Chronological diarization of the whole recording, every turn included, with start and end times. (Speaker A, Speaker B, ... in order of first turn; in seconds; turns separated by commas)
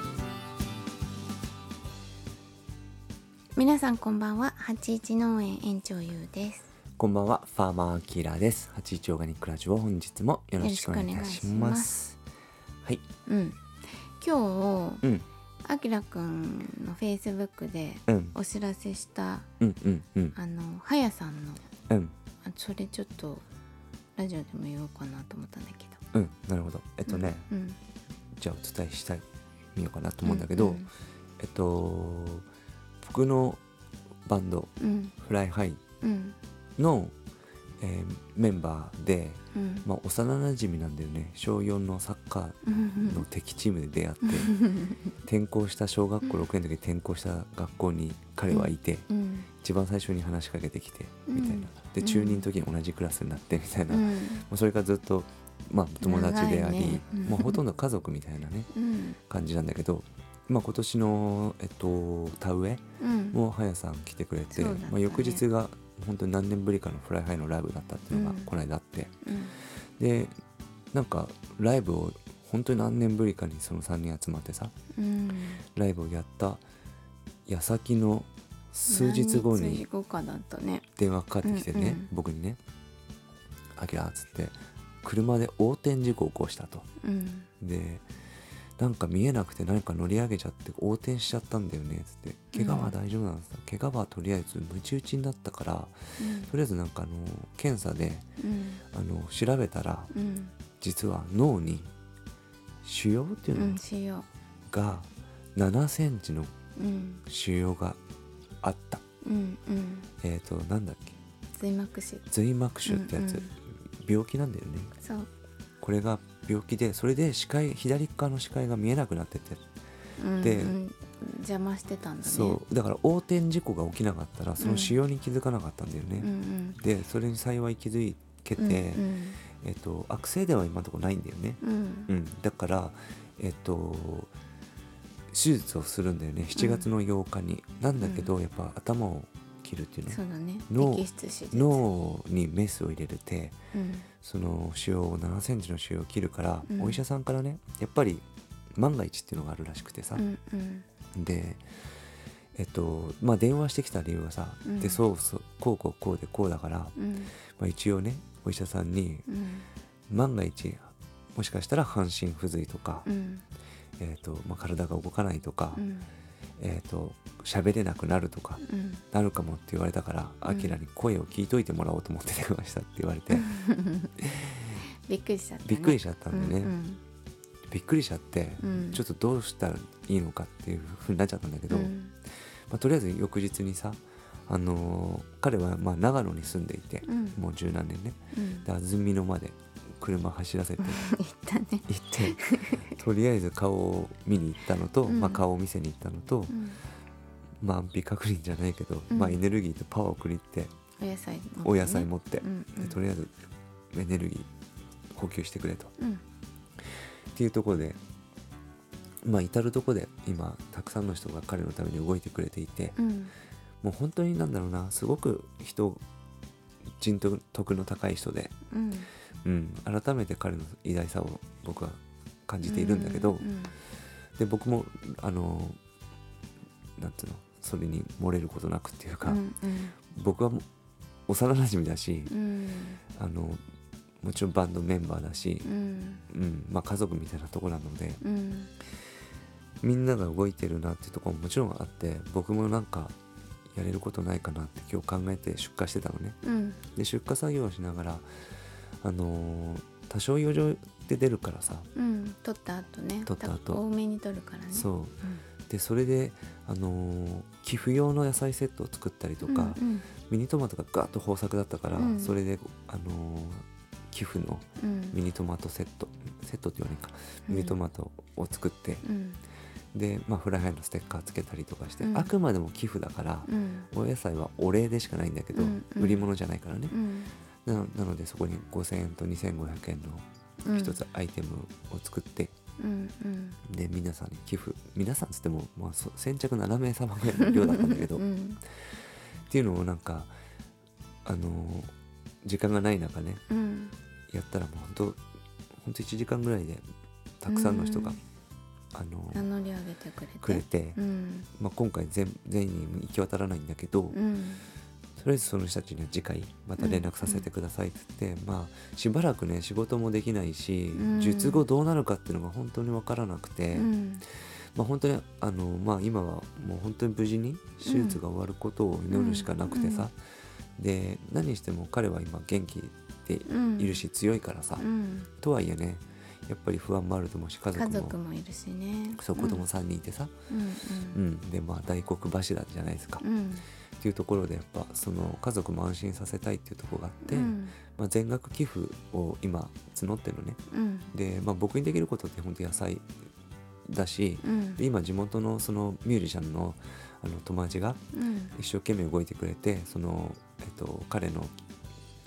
Speaker A: 3.5-6.7, Speaker B: 7.0-12.2, Speaker A: 10.6-12.0, Speaker A: 13.2-15.0, Speaker A: 15.6-19.5, Speaker B: 18.1-18.3, Speaker B: 19.6-20.4, Speaker A: 20.3-21.6, Speaker B: 21.9-22.1, Speaker A: 22.4-23.4, Speaker A: 24.1-26.0, Speaker B: 26.1-27.4, Speaker A: 27.1-27.8, Speaker B: 28.4-30.9, Speaker A: 30.2-30.9, Speaker B: 31.4-32.5, Speaker B: 33.0-33.6, Speaker B: 34.2-35.8, Speaker A: 34.8-35.1, Speaker A: 36.0-36.4, Speaker B: 36.8-37.1, Speaker B: 37.8-44.6, Speaker A: 39.5-39.9, Speaker A: 42.6-43.2, Speaker A: 44.2-45.1, Speaker B: 45.2-49.1, Speaker A: 48.5-49.5, Speaker B: 49.6-58.7, Speaker A: 51.3-52.5, Speaker A: 53.9-54.4, Speaker A: 56.0-57.6, Speaker A: 58.7-59.2, Speaker B: 59.3-69.1, Speaker A: 63.0-63.4, Speaker A: 64.5-65.4, Speaker A: 68.1-68.5, Speaker A: 69.2-69.5, Speaker B: 70.0-70.3, Speaker B: 70.9-74.7, Speaker A: 74.9-75.6, Speaker B: 75.7-76.6, Speaker B: 77.5-79.8, Speaker A: 78.9-80.8, Speaker B: 81.0-82.6, Speaker A: 81.4-82.1, Speaker B: 83.7-86.9, Speaker A: 87.0-87.5, Speaker B: 87.6-88.0, Speaker B: 88.8-98.2, Speaker A: 92.5-93.0, Speaker A: 96.2-96.5, Speaker A: 98.4-98.8, Speaker B: 98.9-100.1, Speaker A: 100.1-100.5, Speaker B: 100.8-101.9, Speaker B: 102.8-103.8, Speaker A: 103.5-104.3, Speaker B: 104.7-106.5, Speaker A: 106.8-107.2, Speaker B: 107.3-108.0, Speaker B: 108.6-109.0, Speaker A: 109.2-110.1, Speaker B: 110.2-111.2, Speaker A: 111.5-112.2, Speaker B: 112.3-114.9, Speaker A: 112.8-113.5, Speaker A: 115.0-115.3, Speaker B: 115.8-119.6, Speaker A: 120.2-122.6, Speaker B: 120.4-120.8, Speaker B: 122.2-134.3, Speaker A: 124.6-125.0, Speaker A: 126.2-126.8, Speaker A: 128.6-129.4, Speaker A: 131.6-132.1, Speaker B: 135.3-143.6, Speaker A: 136.5-136.9, Speaker A: 138.0-138.3, Speaker A: 140.1-141.8, Speaker A: 143.7-144.1, Speaker B: 144.2-150.2, Speaker A: 146.7-147.0, Speaker A: 150.2-150.8, Speaker B: 151.1-151.6, Speaker B: 152.5-157.0, Speaker A: 154.6-155.0, Speaker A: 156.9-157.3, Speaker B: 157.5-159.3, Speaker A: 159.3-159.7, Speaker B: 160.1-163.1, Speaker A: 163.1-163.4, Speaker B: 164.0-165.8, Speaker A: 165.7-166.1, Speaker B: 166.6-173.5, Speaker A: 168.6-169.0, Speaker A: 170.5-170.8, Speaker A: 173.3-174.1, Speaker B: 174.2-174.8, Speaker A: 175.0-177.0, Speaker B: 175.6-176.7, Speaker B: 177.7-181.9, Speaker A: 178.6-179.0, Speaker A: 181.7-182.1, Speaker B: 182.7-191.0, Speaker A: 187.1-187.4, Speaker A: 188.3-188.7, Speaker A: 190.8-193.0, Speaker B: 191.9-196.6, Speaker A: 195.0-195.4, Speaker A: 196.5-196.8, Speaker B: 197.6-200.7, Speaker A: 199.1-199.4, Speaker A: 201.0-203.0, Speaker B: 201.6-203.3, Speaker B: 203.9-204.5, Speaker B: 205.1-205.9, Speaker B: 207.3-208.0, Speaker B: 209.2-213.0, Speaker A: 213.0-213.3, Speaker B: 213.8-216.0, Speaker B: 217.0-218.5, Speaker A: 218.7-219.1, Speaker B: 219.4-223.4, Speaker A: 222.6-223.7, Speaker B: 224.4-225.8, Speaker B: 227.0-229.4, Speaker A: 229.2-229.9, Speaker B: 230.1-230.6, Speaker B: 231.3-232.3, Speaker A: 232.3-233.0, Speaker B: 233.1-233.6, Speaker B: 234.2-235.7, Speaker A: 235.6-236.2, Speaker B: 236.3-238.2, Speaker A: 238.2-238.7, Speaker B: 239.8-243.2, Speaker B: 243.7-246.4, Speaker A: 246.4-246.8, Speaker B: 246.9-248.2, Speaker B: 249.0-251.9, Speaker A: 251.9-255.4, Speaker B: 253.2-253.8, Speaker B: 254.7-255.2, Speaker B: 255.7-269.0, Speaker A: 259.5-260.1, Speaker A: 261.9-262.4, Speaker A: 264.8-265.2, Speaker A: 267.5-267.8, Speaker A: 269.0-269.4, Speaker B: 269.9-276.9, Speaker A: 272.0-272.3, Speaker A: 273.5-273.9, Speaker A: 275.5-276.3, Speaker A: 276.9-277.3, Speaker B: 277.6-282.5, Speaker A: 280.6-281.0, Speaker A: 282.8-283.6, Speaker B: 283.6-288.2, Speaker A: 287.3-288.6, Speaker B: 289.5-290.3, Speaker B: 291.2-291.9, Speaker B: 292.4-293.4, Speaker A: 293.5-293.9, Speaker B: 294.3-295.2, Speaker B: 295.8-296.8, Speaker B: 297.4-298.2, Speaker A: 297.5-298.2, Speaker B: 298.9-299.5, Speaker A: 299.3-301.5, Speaker B: 300.4-301.0, Speaker B: 301.5-304.1, Speaker A: 304.1-304.6, Speaker B: 305.2-313.9, Speaker A: 306.8-307.5, Speaker A: 310.9-311.6, Speaker A: 313.7-314.2, Speaker B: 314.7-320.1, Speaker A: 317.9-318.2, Speaker A: 319.1-320.1, Speaker B: 320.8-324.8, Speaker A: 323.5-324.1, Speaker A: 324.8-325.3, Speaker B: 325.4-328.1, Speaker A: 327.7-329.7, Speaker B: 329.1-330.3, Speaker A: 330.5-331.2, Speaker B: 331.1-333.2, Speaker A: 333.2-333.6, Speaker B: 334.0-340.6, Speaker A: 337.2-337.8, Speaker A: 340.7-341.1, Speaker B: 341.1-343.1, Speaker B: 343.9-348.0, Speaker A: 344.4-344.8, Speaker A: 348.1-348.5, Speaker B: 348.5-351.5